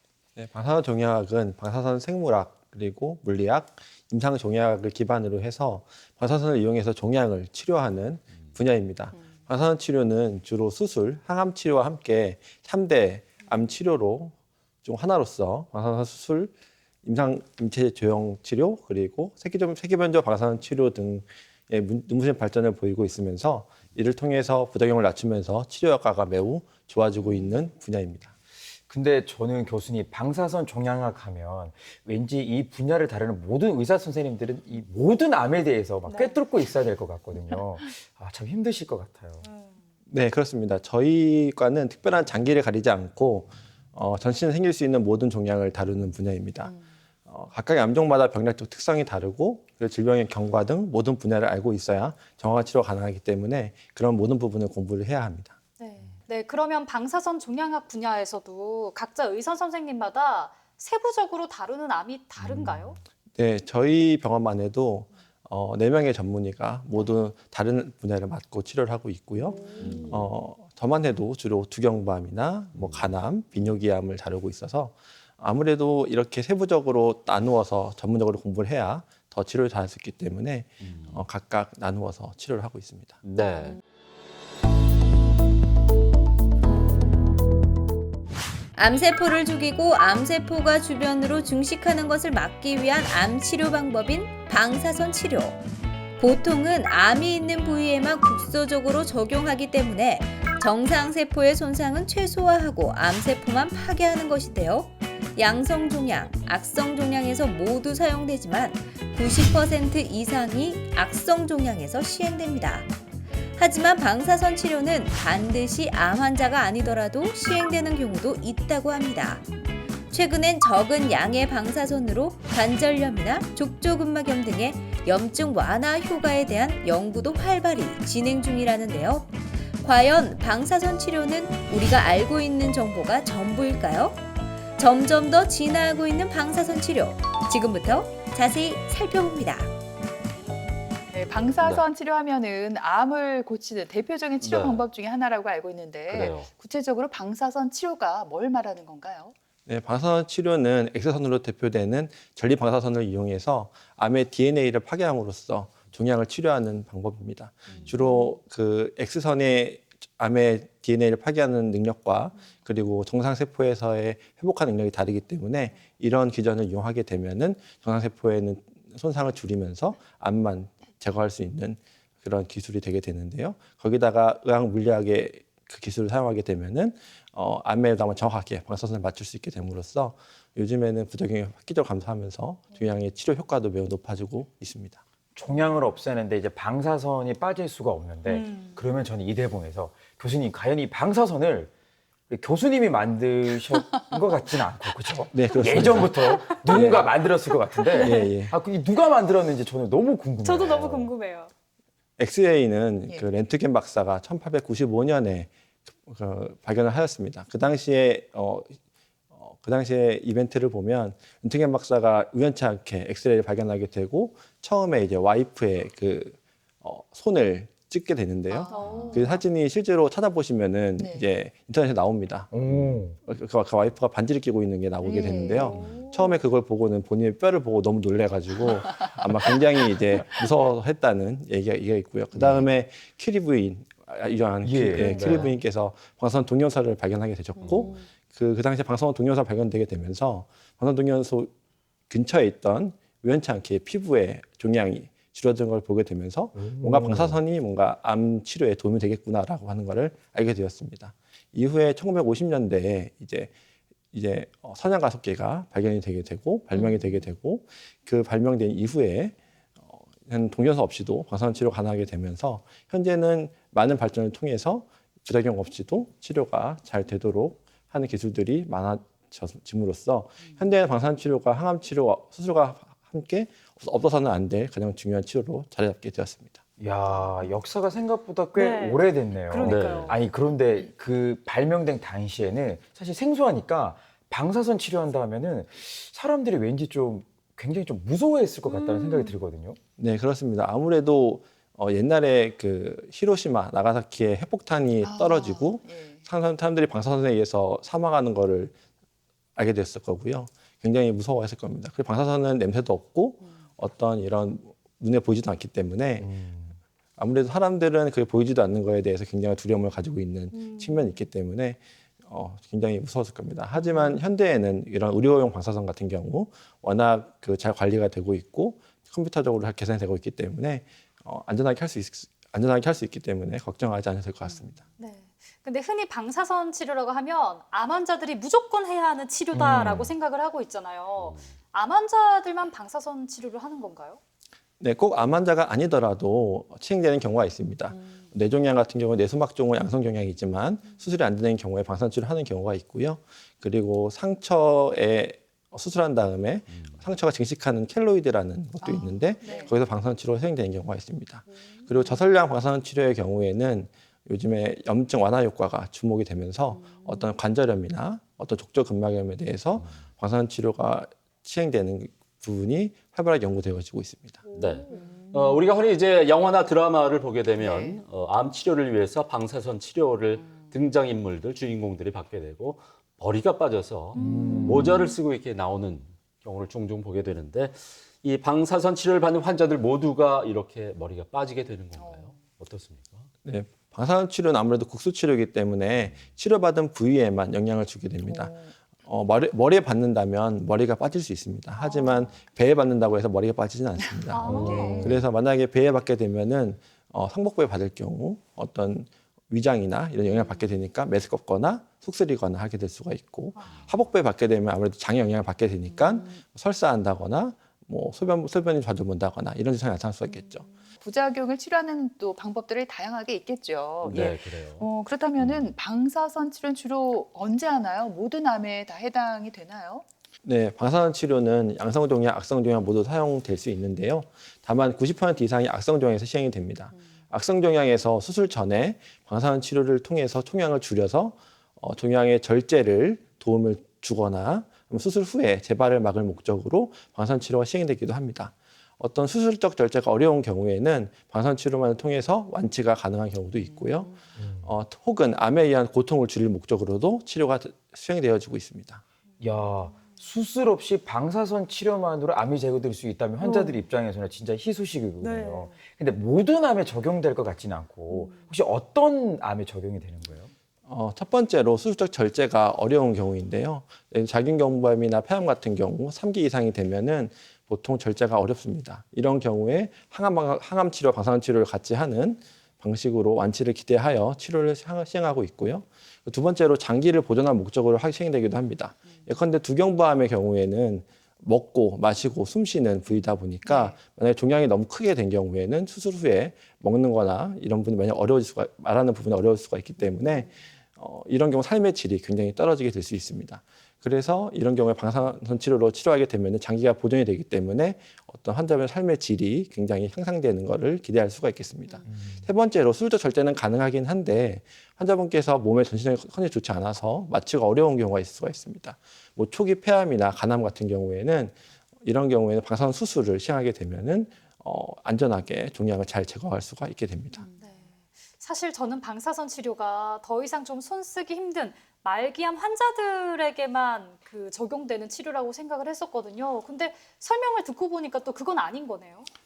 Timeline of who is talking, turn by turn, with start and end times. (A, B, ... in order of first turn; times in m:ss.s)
0:00.4-0:28.3 A
0:28.9-0:39.4 B
0:36.1-0:36.4 C
0:39.4-0:39.8 C
0:40.1-0:46.7 A
0:47.3-0:55.6 A
0:55.8-1:03.0 C
1:03.4-1:23.2 A
1:09.5-1:10.1 C
1:09.8-1:10.2 D
1:12.8-1:13.1 D
1:20.8-1:21.2 D
1:23.2-1:23.8 D
1:28.8-1:35.6 E
1:36.2-1:52.9 E
1:53.6-1:59.4 E
2:00.1-2:14.2 E
2:14.8-2:19.8 E
2:21.1-2:29.3 F
2:24.4-2:24.8 D
2:26.1-2:26.5 D
2:29.7-3:05.0 A
3:05.4-3:11.7 B
3:08.3-3:08.8 C
3:12.3-3:21.1 B
3:15.3-3:17.1 A
3:16.3-3:16.9 C
3:17.7-3:18.3 C
3:18.0-3:18.5 A
3:20.4-3:21.5 C
3:22.2-3:28.8 A
3:29.3-4:01.5 A
3:38.5-3:39.4 F
3:38.7-3:39.3 C
3:41.0-3:41.3 F
3:42.5-3:43.2 B
3:45.0-3:46.1 F
3:54.6-3:55.5 B
3:55.0-3:55.3 C
3:55.1-3:55.5 D
3:57.6-3:57.9 D
4:02.1-4:13.5 A
4:06.6-4:07.4 B
4:14.1-4:19.4 A
4:19.9-4:36.6 A
4:36.8-4:49.8 B
4:38.6-4:40.2 C
4:39.6-4:40.2 D
4:48.7-4:49.4 C
4:50.0-4:58.7 A
4:55.0-4:56.2 F
4:59.6-5:06.3 A
5:06.2-5:06.8 B
5:07.2-5:24.8 A
5:10.6-5:11.0 C
5:25.0-5:34.2 C
5:29.5-5:30.2 B
5:31.2-5:31.5 D
5:34.8-6:04.4 A
5:46.7-5:47.0 D
5:48.8-5:49.7 F
6:04.5-6:05.2 C
6:04.6-6:23.3 D
6:07.6-6:08.0 F
6:14.2-6:14.5 C
6:14.2-6:15.1 B
6:22.0-6:22.3 F
6:23.4-6:50.6 A
6:28.2-6:28.7 F
6:31.8-6:32.3 F
6:34.3-6:35.2 C
6:34.4-6:35.2 F
6:34.5-6:35.0 B
6:43.6-6:43.8 C
6:45.9-6:46.4 F
6:51.0-7:00.0 F
6:54.0-6:54.8 D
6:55.4-6:55.7 D
7:00.4-7:29.0 A
7:24.4-7:24.7 B
7:29.4-7:40.5 B
7:33.4-7:33.8 C
7:35.2-7:35.8 C
7:40.9-8:37.4 A
8:03.7-8:04.0 F
8:22.1-8:22.5 B
8:37.6-8:49.3 C